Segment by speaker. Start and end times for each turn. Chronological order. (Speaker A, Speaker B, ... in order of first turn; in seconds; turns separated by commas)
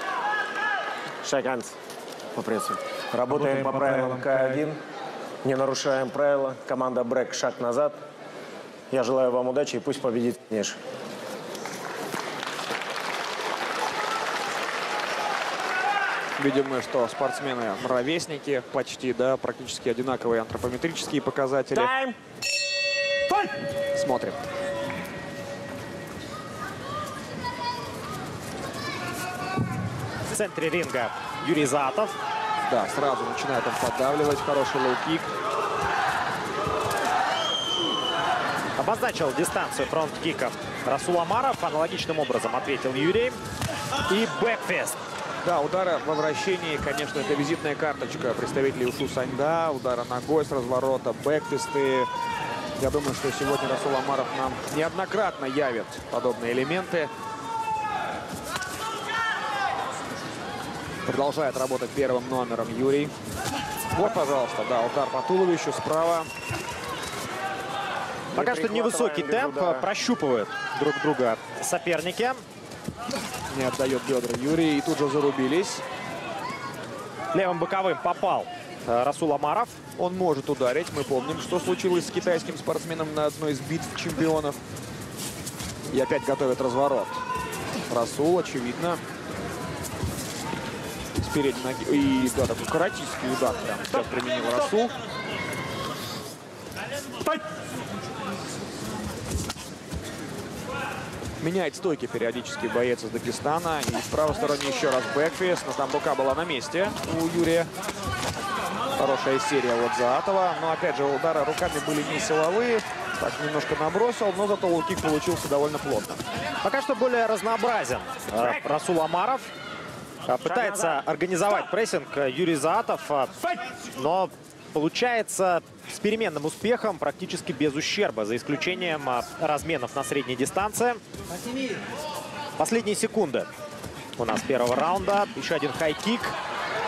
Speaker A: 1.2-1.7, Speaker A: 2.3-4.8, Speaker A: 5.4-8.0, Speaker A: 8.9-10.8, Speaker B: 16.4-21.9, Speaker A: 21.7-22.2, Speaker B: 23.9-24.4, Speaker C: 30.3-32.1, Speaker B: 32.7-35.3, Speaker C: 38.8-43.4, Speaker C: 44.1-45.0, Speaker B: 45.4-52.1, Speaker B: 52.8-57.1, Speaker B: 61.0-63.1, Speaker B: 63.9-66.3, Speaker A: 68.3-69.8, Speaker C: 68.3-72.4, Speaker B: 73.5-75.8, Speaker C: 77.3-79.8, Speaker B: 79.9-84.6, Speaker B: 85.9-87.2, Speaker B: 87.9-89.0, Speaker B: 91.2-94.9, Speaker B: 101.4-107.7, Speaker B: 109.0-116.2, Speaker C: 116.6-119.5, Speaker C: 120.2-131.0, Speaker C: 132.6-133.5, Speaker C: 134.2-136.3